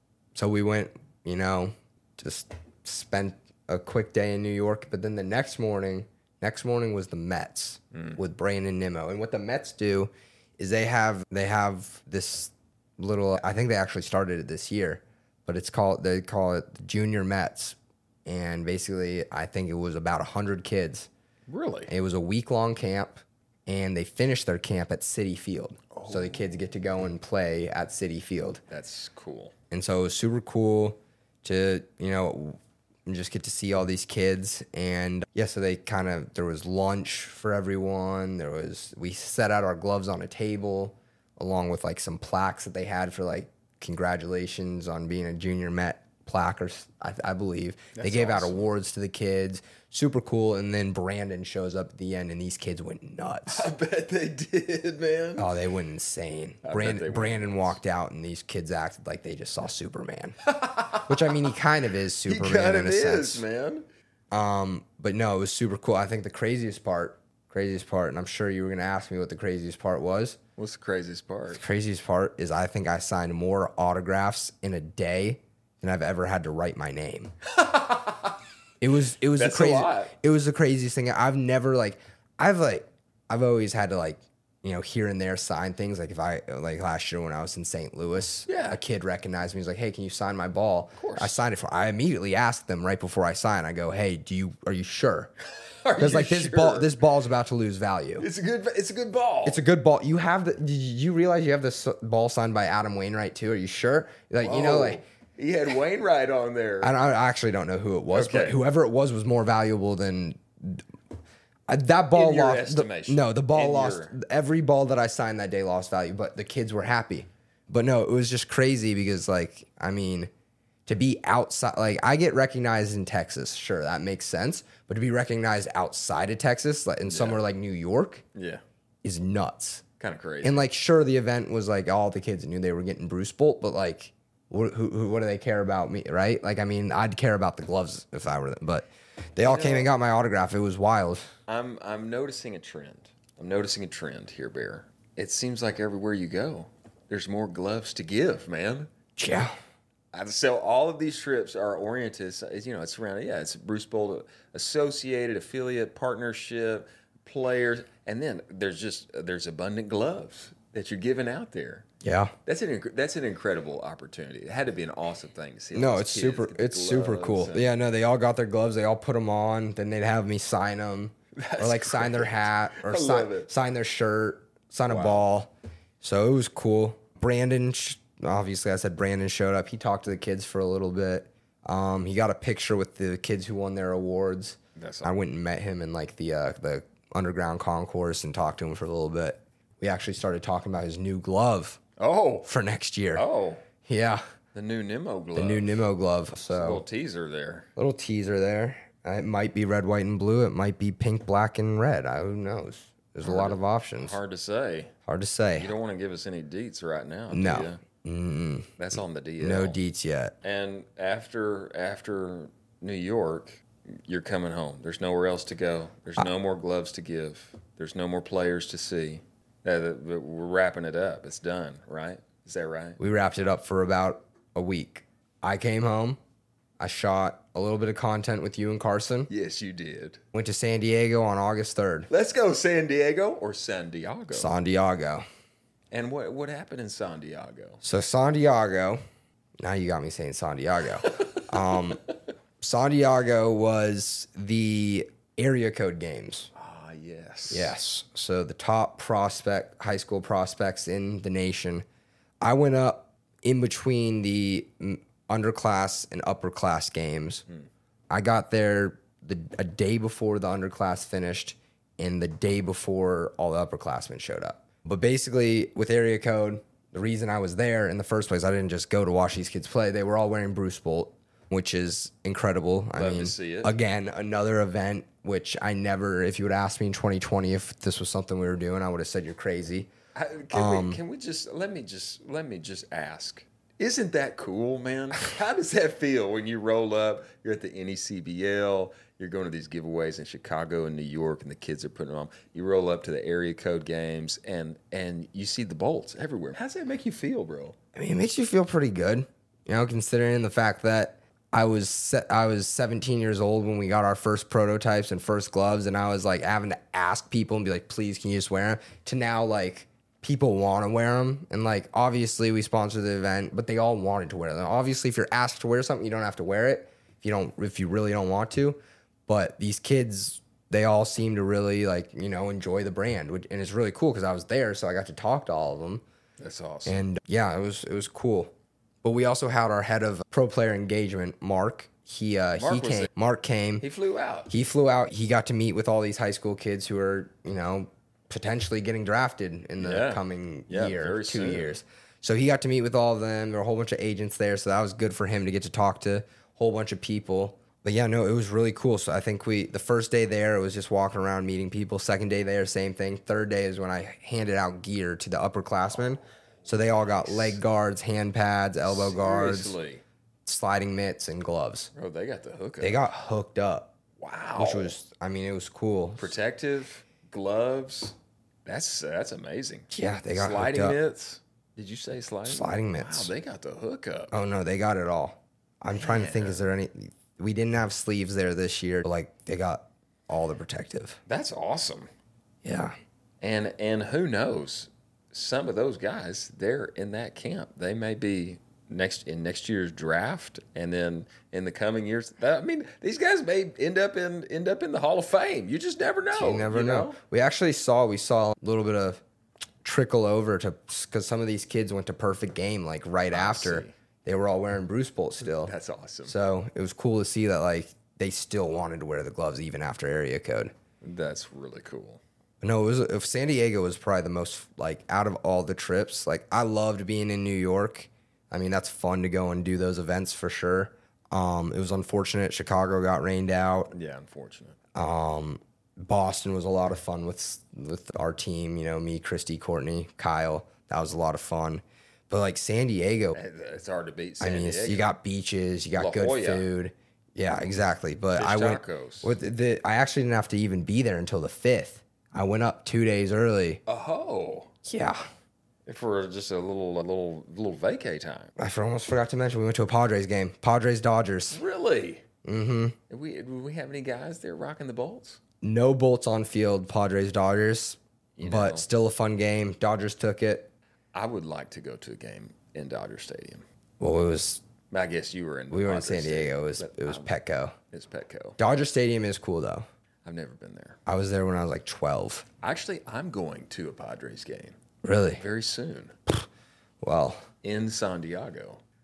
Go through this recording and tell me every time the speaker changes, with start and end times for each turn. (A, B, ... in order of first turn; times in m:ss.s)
0:00.4-0:21.1 A
0:21.5-0:21.9 B
0:21.9-0:28.6 A
0:25.9-0:26.4 B
0:28.7-0:29.5 B
0:29.7-0:53.7 A
0:47.9-0:48.7 B
0:53.5-0:55.5 B
0:55.4-1:00.4 A
0:56.6-0:57.8 B
1:00.5-1:01.6 B
1:01.0-1:03.4 A
1:02.2-1:03.8 B
1:04.3-1:10.4 A
1:10.6-1:11.6 B
1:11.5-1:17.3 A
1:17.5-1:18.3 B
1:18.8-1:35.3 A
1:19.3-1:20.1 B
1:28.5-1:28.8 B
1:31.0-1:31.4 B
1:35.6-1:37.0 B
1:36.0-1:38.3 A
1:38.2-1:39.6 B
1:39.4-1:45.0 A
1:44.4-1:47.0 B
1:46.8-1:50.8 A
1:48.1-1:48.6 B
1:51.7-2:00.3 A
1:52.1-1:54.2 B
2:00.9-2:08.2 A
2:07.1-2:07.4 B
2:08.4-2:08.6 B
2:09.0-2:09.8 A
2:10.0-2:10.7 B
2:10.4-2:21.3 A
2:19.4-2:19.9 B
2:21.5-2:28.9 B
2:29.2-2:29.5 A
2:30.1-2:41.8 B
2:42.0-2:42.3 A
2:42.5-2:47.7 B
2:45.7-3:11.8 A
2:51.4-2:53.5 B
2:54.9-2:55.3 B
3:04.8-3:05.1 B
3:12.0-3:12.5 B
3:12.5-3:13.2 A
3:13.1-3:13.6 B
3:13.8-3:14.2 A
3:14.5-3:15.8 B
3:15.4-3:16.8 A
3:16.5-3:17.7 B
3:17.8-3:24.2 A
3:23.2-3:24.9 B
3:25.1-3:25.7 A
3:25.6-3:27.8 B
3:27.3-3:28.8 A
3:28.8-3:29.8 B
3:29.4-3:30.4 A
3:30.4-3:43.0 B
3:43.0-3:46.2 A
3:46.8-3:49.3 A
3:49.3-3:50.2 B
3:50.3-3:52.1 A
3:52.1-3:54.5 B
3:54.3-3:55.2 A
3:55.9-3:57.8 B
3:57.8-3:59.0 A
3:59.6-4:02.0 A
4:01.0-4:01.9 B
4:02.6-4:06.5 A
4:06.5-4:07.8 B
4:07.5-4:11.8 A
4:12.4-4:17.4 A
4:18.1-4:39.9 A
4:33.0-4:33.7 B
4:40.2-4:57.8 B
4:40.5-4:41.0 A
4:57.9-5:26.0 A
5:26.4-5:27.0 B
5:26.9-5:28.5 A
5:29.0-5:33.8 A
5:32.6-5:33.1 B
5:33.8-5:34.5 B
5:34.5-5:59.8 A
5:39.8-5:41.7 B
5:56.9-5:57.6 B
5:58.8-6:00.0 B
6:00.4-6:01.9 A
6:01.9-6:03.0 B
6:02.8-6:03.9 A
6:04.2-6:05.0 B
6:04.6-6:06.3 A
6:06.2-6:08.2 B
6:08.7-6:14.3 B
6:09.9-6:11.0 A
6:12.5-6:13.3 A
6:14.3-6:21.2 A
6:15.9-6:16.6 B
6:21.3-6:22.1 B
6:22.6-6:22.9 A
6:23.4-6:37.2 B
6:36.3-6:39.2 A
6:39.8-6:45.7 A
6:43.3-6:43.9 B
6:45.4-6:46.4 B
6:46.3-6:50.7 A
6:51.0-6:52.2 B
6:52.6-7:03.9 A
7:03.9-7:04.8 B
7:05.0-7:13.4 A
7:13.3-7:15.1 B
7:14.4-7:23.8 A
7:16.0-7:16.7 B
7:18.4-7:19.4 B
7:23.9-7:24.7 B
7:24.8-7:25.2 A
7:25.9-7:28.5 B
7:28.6-7:31.6 A
7:31.5-7:32.2 B
7:32.4-7:33.0 A
7:33.1-7:35.4 B
7:35.6-7:40.7 A
7:38.4-7:38.9 B
7:41.1-7:43.6 B
7:44.0-7:44.6 A
7:44.9-7:47.3 B
7:45.7-7:47.7 A
7:47.9-7:48.6 B
7:48.6-7:49.8 A
7:50.2-7:51.0 B
7:51.1-7:52.5 A
7:52.6-7:54.8 B
7:55.0-7:55.4 A
7:55.3-7:56.1 B
7:57.0-7:57.4 A
7:57.6-7:58.8 B